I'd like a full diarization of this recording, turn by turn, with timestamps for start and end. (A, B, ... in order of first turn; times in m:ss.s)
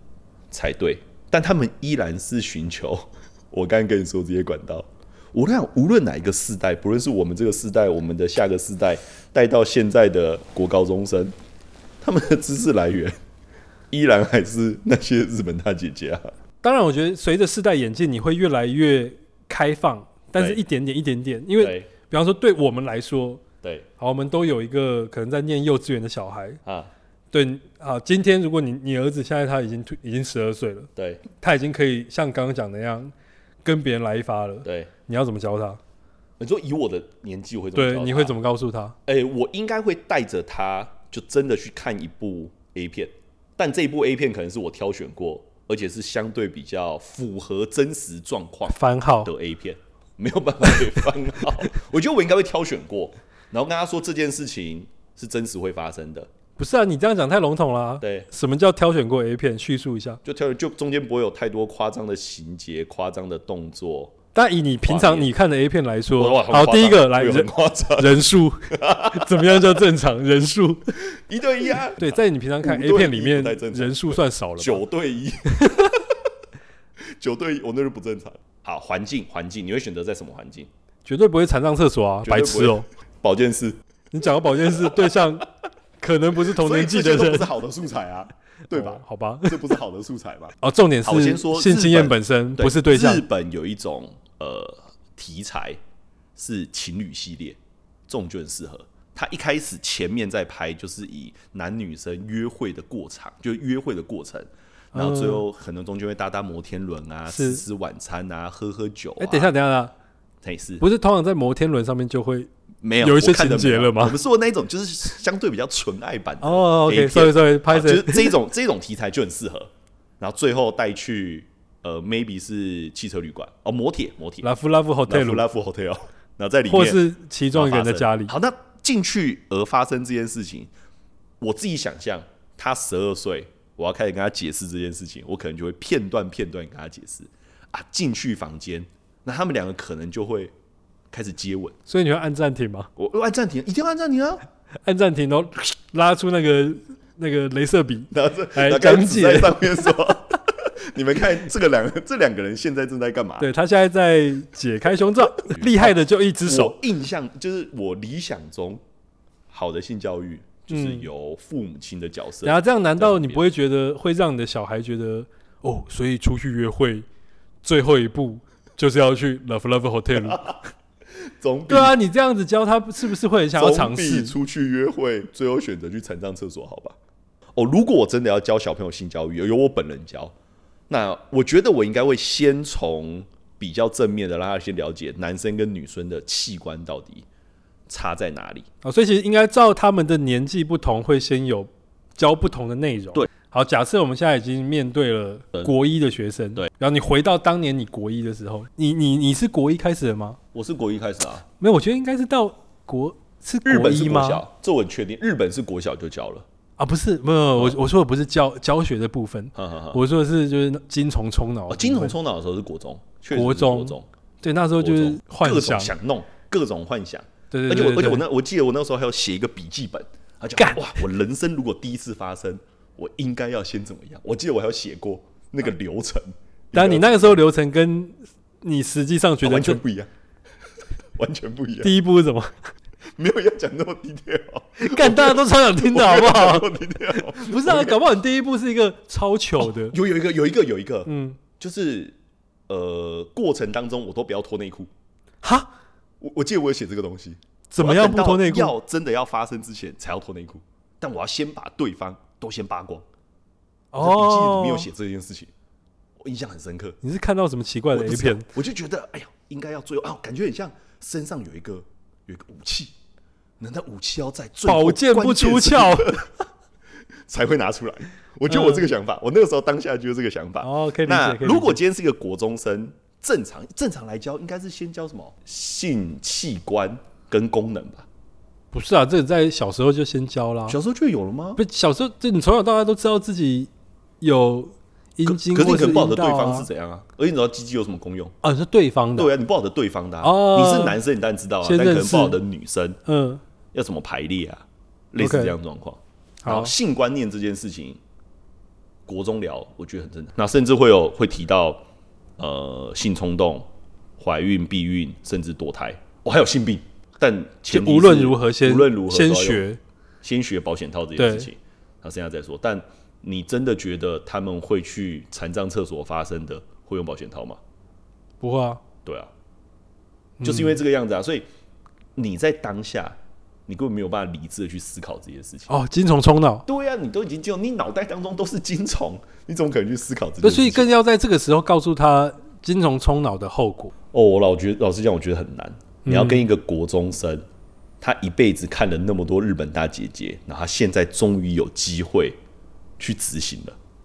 0:00.5-0:11.3 A
0:12.0-0:13.2 A
0:13.9-0:16.3 A
0:16.6-0:23.4 B
0:20.4-0:20.6 A
0:21.6-0:21.9 A
0:23.6-0:23.9 A
0:24.0-0:26.6 B
0:26.6-0:26.9 A
0:27.3-0:33.1 B
0:31.0-0:31.2 A
0:33.6-0:35.8 B
0:34.6-0:34.9 A
0:36.4-0:38.4 A
0:37.8-0:39.0 B
0:39.1-0:56.3 A
0:48.7-0:49.3 B
0:56.6-1:00.2 B
0:58.0-0:58.3 A
1:00.2-1:04.2 A
1:04.4-1:11.0 B
1:04.9-1:05.3 A
1:06.2-1:09.8 A
1:11.1-1:16.2 A
1:12.0-1:14.8 B
1:15.5-1:16.0 B
1:17.2-1:20.7 A
1:21.0-1:22.9 B
1:22.2-1:23.8 A
1:24.1-1:25.5 B
1:24.7-1:25.0 A
1:26.0-1:27.5 B
1:26.5-1:35.8 A
1:28.7-1:29.8 B
1:30.6-1:33.2 B
1:36.4-1:49.5 A
1:44.9-1:45.4 B
1:47.3-1:47.6 B
1:49.2-1:49.9 B
1:50.4-1:50.8 A
1:50.8-1:52.5 B
1:52.8-2:04.5 A
1:53.0-1:54.2 B
1:56.4-1:58.4 B
2:04.4-2:05.4 B
2:05.1-2:07.0 A
2:06.7-2:08.3 B
2:07.5-2:10.7 A
2:11.4-2:20.5 A
2:21.1-2:21.8 A
2:21.9-2:22.9 B
2:23.0-2:24.4 A
2:24.8-2:30.0 B
2:28.1-2:33.5 A
2:33.4-2:36.8 B
2:35.4-2:38.8 A
2:39.5-2:43.4 A
2:40.7-2:41.1 B
2:42.4-2:47.1 B
2:47.6-2:50.6 B
2:50.2-2:50.6 A
2:51.2-2:52.0 A
2:51.7-2:54.4 B
2:53.6-2:57.0 A
2:57.6-3:00.3 A
3:00.9-3:07.3 A
3:07.9-3:08.7 A
3:08.8-3:20.4 B
3:20.5-3:21.4 A
3:21.6-3:24.4 B
3:23.6-3:26.5 A
3:26.8-3:32.2 B
3:29.6-3:30.0 A
3:31.7-3:34.1 A
3:33.3-3:35.9 B
3:34.8-3:47.4 A
3:37.5-3:38.2 B
3:40.6-3:40.9 B
3:46.7-3:49.8 B
3:49.4-3:50.1 A
3:51.2-3:52.0 A
3:51.8-3:52.6 B
3:53.2-3:58.0 A
3:54.8-4:00.0 B
3:59.6-4:02.2 A
4:01.1-4:01.4 B
4:02.7-4:04.9 A
4:05.4-4:05.7 B
4:06.2-4:13.1 A
4:07.7-4:08.7 B
4:13.9-4:14.9 B
4:14.0-4:15.5 A
4:16.2-4:17.0 A
4:17.0-4:18.5 B
4:17.9-4:22.9 A
4:23.6-4:26.4 A
4:24.7-4:26.2 B
4:27.3-4:38.1 A
4:28.5-4:28.9 B
4:30.6-4:31.8 B
4:38.7-4:40.8 B
4:40.7-4:41.6 A
4:41.6-4:43.7 B
4:44.2-4:46.7 B
4:45.2-4:48.4 A
4:48.4-4:49.3 B
4:49.2-4:53.0 A
4:50.2-4:51.0 B
4:51.6-4:52.4 B
4:53.1-4:53.4 B
4:53.7-4:58.0 A
4:55.2-4:55.6 B
4:56.4-4:56.7 B
4:59.1-5:01.8 A
5:02.4-5:09.6 A
5:07.7-5:09.8 B
5:10.2-5:17.6 A
5:11.2-5:11.5 B
5:18.4-5:18.8 B
5:19.0-5:19.3 A
5:20.4-5:20.8 B
5:20.4-5:21.5 A
5:22.2-5:25.7 A
5:25.7-5:26.7 B
5:26.7-5:30.9 A
5:30.4-5:33.9 B
5:34.1-5:37.4 A
5:36.0-5:36.4 B
5:38.0-5:42.4 A
5:43.0-5:43.8 A